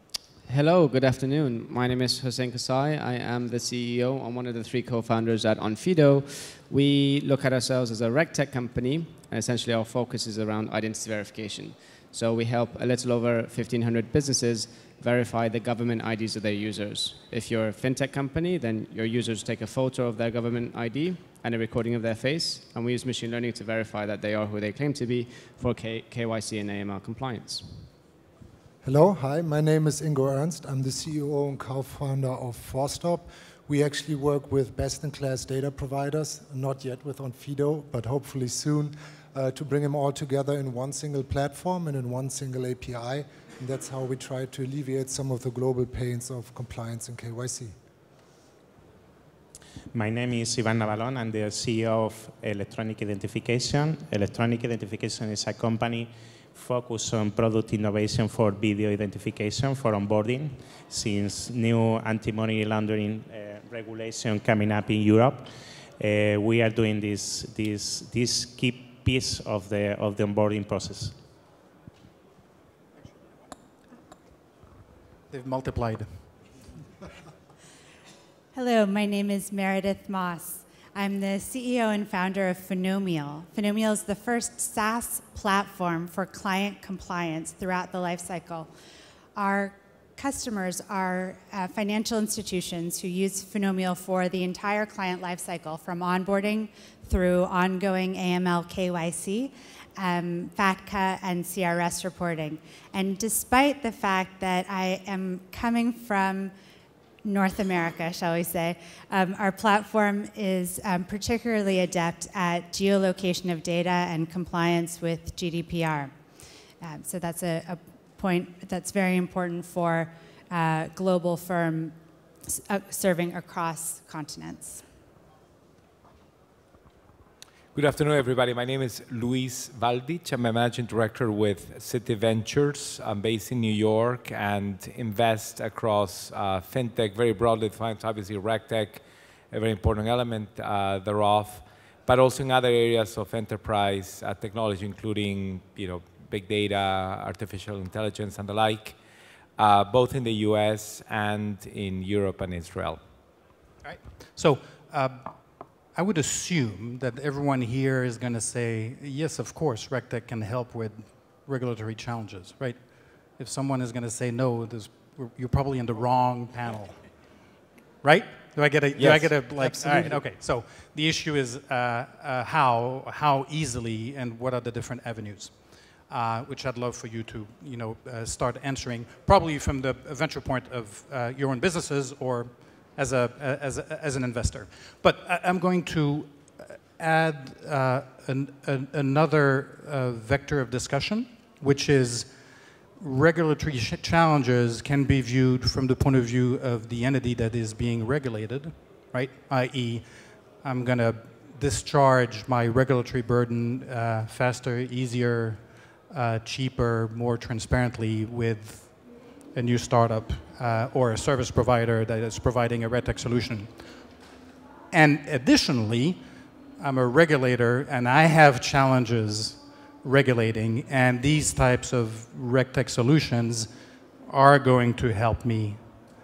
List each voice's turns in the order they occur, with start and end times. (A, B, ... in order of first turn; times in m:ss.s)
0:00.4-0:27.8 A
0:28.8-0:47.8 B
0:49.9-1:11.2 C
1:15.3-1:16.3 D
1:18.5-1:28.7 E
1:29.4-1:46.5 E
1:47.2-1:56.1 E
1:56.8-2:02.0 E
2:02.5-2:04.8 E
2:07.7-2:29.0 F
2:29.6-2:33.0 F
2:33.8-2:35.3 D
2:35.9-2:47.5 D
2:48.0-3:12.3 D
2:49.0-2:50.2 F
3:12.9-3:29.0 D
3:29.5-3:34.0 D
3:34.9-3:36.2 D
3:36.8-3:43.7 D
3:44.2-3:45.8 D